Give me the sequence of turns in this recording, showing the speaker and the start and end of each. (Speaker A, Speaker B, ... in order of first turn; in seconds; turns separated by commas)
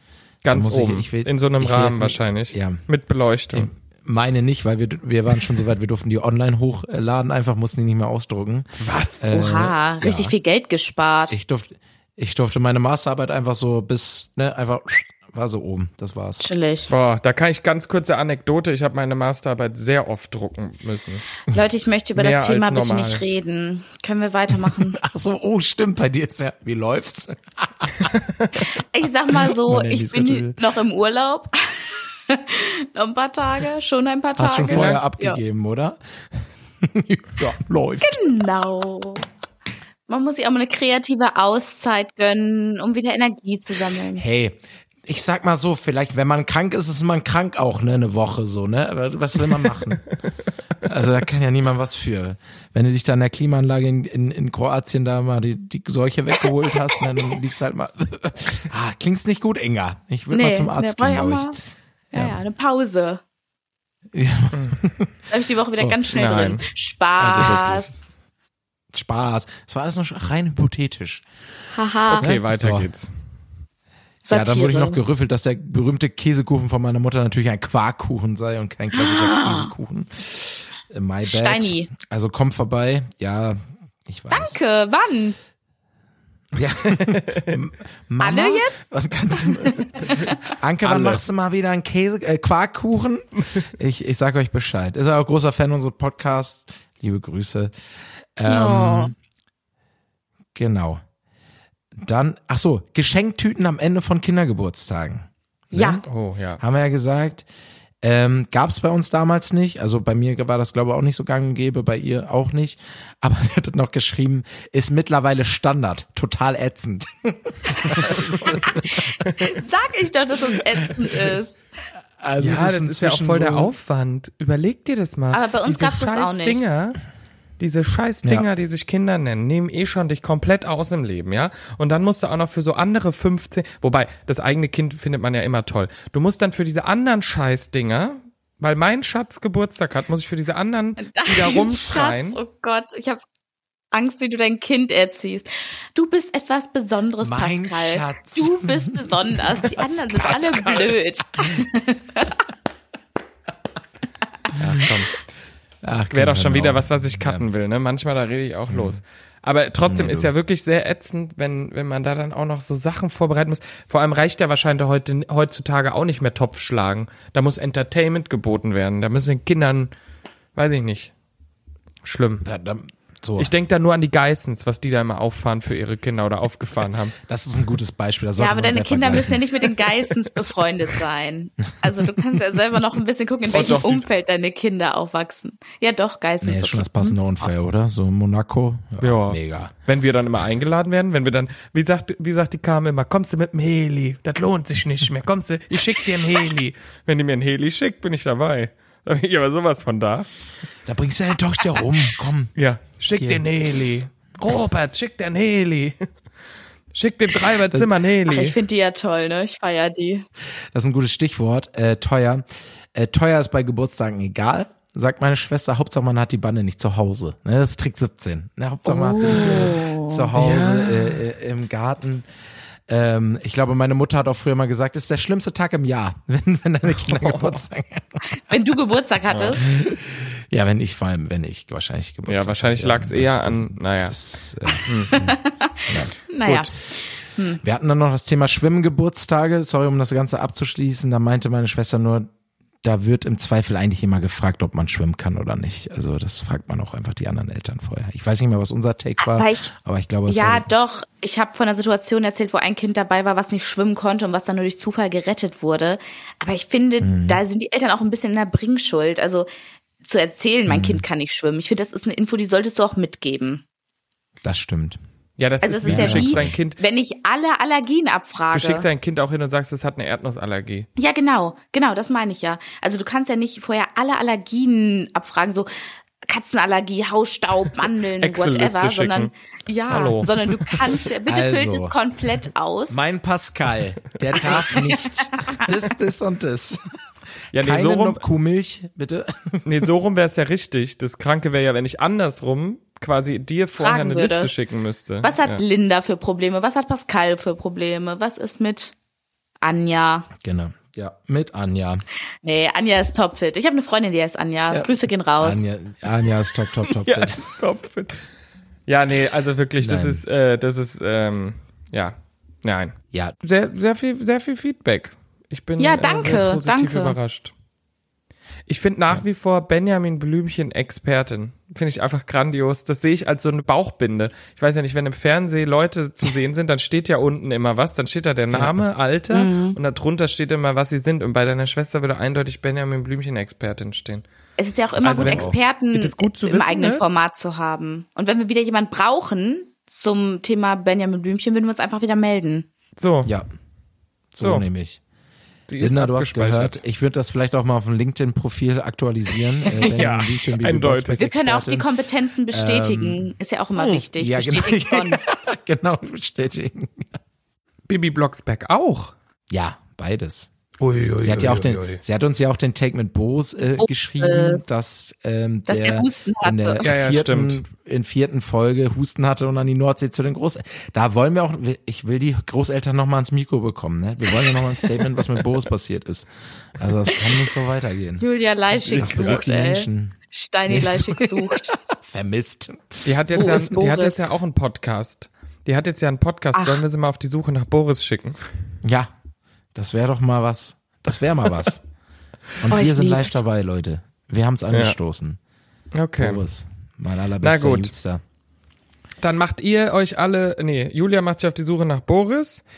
Speaker A: 0.4-3.7, Speaker B: 0.5-2.8, Speaker B: 3.5-8.7, Speaker A: 8.8-9.3, Speaker B: 9.2-10.3, Speaker C: 9.2-11.4, Speaker B: 11.3-16.5, Speaker C: 16.4-16.9, Speaker A: 16.9-21.2, Speaker C: 21.5-25.0, Speaker A: 22.1-23.2, Speaker B: 24.6-28.1, Speaker A: 28.1-28.5, Speaker C: 28.6-35.4, Speaker B: 29.3-30.6, Speaker B: 34.4-38.2, Speaker A: 34.7-35.0, Speaker C: 38.0-39.2, Speaker C: 40.1-44.2, Speaker B: 44.1-50.0, Speaker B: 50.8-61.6, Speaker C: 60.3-61.6, Speaker B: 62.1-62.4, Speaker C: 62.1-63.2, Speaker B: 64.1-65.1, Speaker A: 64.5-64.8, Speaker C: 65.3-67.9, Speaker B: 65.7-66.1, Speaker A: 66.1-66.6, Speaker B: 67.2-67.9, Speaker A: 67.3-67.8, Speaker B: 68.9-71.2, Speaker C: 71.7-72.3, Speaker A: 72.1-73.1, Speaker B: 72.1-72.9, Speaker C: 74.3-75.0, Speaker B: 74.3-84.6, Speaker C: 78.9-79.7, Speaker C: 81.2-81.9, Speaker C: 84.3-85.4, Speaker B: 86.5-97.7, Speaker A: 86.8-87.6, Speaker C: 88.2-90.4, Speaker A: 90.8-91.2, Speaker B: 98.4-99.2, Speaker C: 98.5-99.1, Speaker B: 100.5-101.0, Speaker B: 102.0-106.0, Speaker C: 105.7-106.0, Speaker A: 106.0-106.6, Speaker B: 106.6-107.5, Speaker B: 108.0-119.2, Speaker C: 117.9-121.6, Speaker B: 122.2-123.7, Speaker A: 122.4-127.0, Speaker C: 125.3-126.6, Speaker A: 127.6-142.4, Speaker C: 141.0-143.2, Speaker C: 143.9-152.4, Speaker B: 147.2-150.6, Speaker A: 150.3-150.9, Speaker B: 154.6-154.9, Speaker A: 154.6-155.1, Speaker B: 155.8-157.5, Speaker A: 156.1-169.9, Speaker B: 158.7-159.0, Speaker B: 159.8-160.3, Speaker A: 170.6-171.1, Speaker A: 172.0-172.4, Speaker B: 172.4-173.5, Speaker A: 173.4-177.2, Speaker B: 177.2-179.6, Speaker C: 178.4-187.2, Speaker A: 183.5-184.1, Speaker B: 186.4-189.7, Speaker A: 189.0-200.3, Speaker B: 200.9-202.5, Speaker A: 202.6-206.1, Speaker B: 203.1-203.5, Speaker A: 206.9-208.6, Speaker C: 208.3-210.2, Speaker B: 210.7-222.3, Speaker C: 218.9-220.3, Speaker A: 219.3-219.8, Speaker A: 220.4-221.2, Speaker B: 222.9-228.3, Speaker A: 227.0-227.6, Speaker C: 228.3-229.6, Speaker A: 229.3-229.6, Speaker B: 229.6-236.7, Speaker A: 232.3-234.2, Speaker A: 234.8-235.2, Speaker C: 235.1-237.6, Speaker B: 237.6-242.3, Speaker B: 242.8-250.7, Speaker C: 249.2-249.7, Speaker C: 250.3-259.5, Speaker B: 257.0-257.4, Speaker C: 260.0-263.6, Speaker B: 260.7-261.0, Speaker B: 264.4-265.0, Speaker A: 265.4-266.8, Speaker C: 265.6-268.9, Speaker B: 265.8-266.5, Speaker A: 268.5-270.9, Speaker C: 271.0-275.7, Speaker C: 276.2-283.0, Speaker A: 278.2-279.3, Speaker A: 279.9-280.9, Speaker B: 281.3-281.9, Speaker B: 282.9-286.8, Speaker C: 284.4-285.7, Speaker A: 287.5-288.2, Speaker B: 287.5-289.9, Speaker A: 289.6-295.6, Speaker C: 293.8-294.5, Speaker C: 295.2-298.9, Speaker C: 299.6-300.3, Speaker B: 300.4-302.0, Speaker C: 302.4-305.7, Speaker B: 304.7-307.5, Speaker A: 306.3-308.2, Speaker A: 308.9-317.5, Speaker B: 309.8-310.2, Speaker C: 315.8-317.2, Speaker A: 318.7-334.2, Speaker B: 328.5-328.9, Speaker C: 329.3-329.8, Speaker C: 334.6-342.7, Speaker A: 335.0-337.0, Speaker B: 335.1-335.6, Speaker A: 343.0-343.3, Speaker B: 343.2-343.5, Speaker B: 344.3-345.0, Speaker A: 344.4-344.6, Speaker A: 345.7-346.8, Speaker B: 345.8-351.9, Speaker A: 349.8-351.2, Speaker C: 351.2-355.2, Speaker B: 352.5-357.2, Speaker A: 357.9-359.1, Speaker B: 359.5-360.5, Speaker A: 360.8-362.0, Speaker B: 361.2-378.2, Speaker C: 363.8-364.7, Speaker C: 365.7-366.8, Speaker A: 366.8-367.6, Speaker C: 378.2-381.7, Speaker A: 378.9-379.4, Speaker B: 378.9-380.2, Speaker B: 380.7-383.6, Speaker A: 383.1-388.4, Speaker C: 383.3-384.3, Speaker C: 386.6-386.8, Speaker B: 388.8-389.1, Speaker B: 389.8-391.8, Speaker B: 392.6-395.4, Speaker C: 392.7-393.4, Speaker A: 395.9-396.4, Speaker B: 396.2-398.2, Speaker A: 397.4-397.9, Speaker A: 399.2-402.6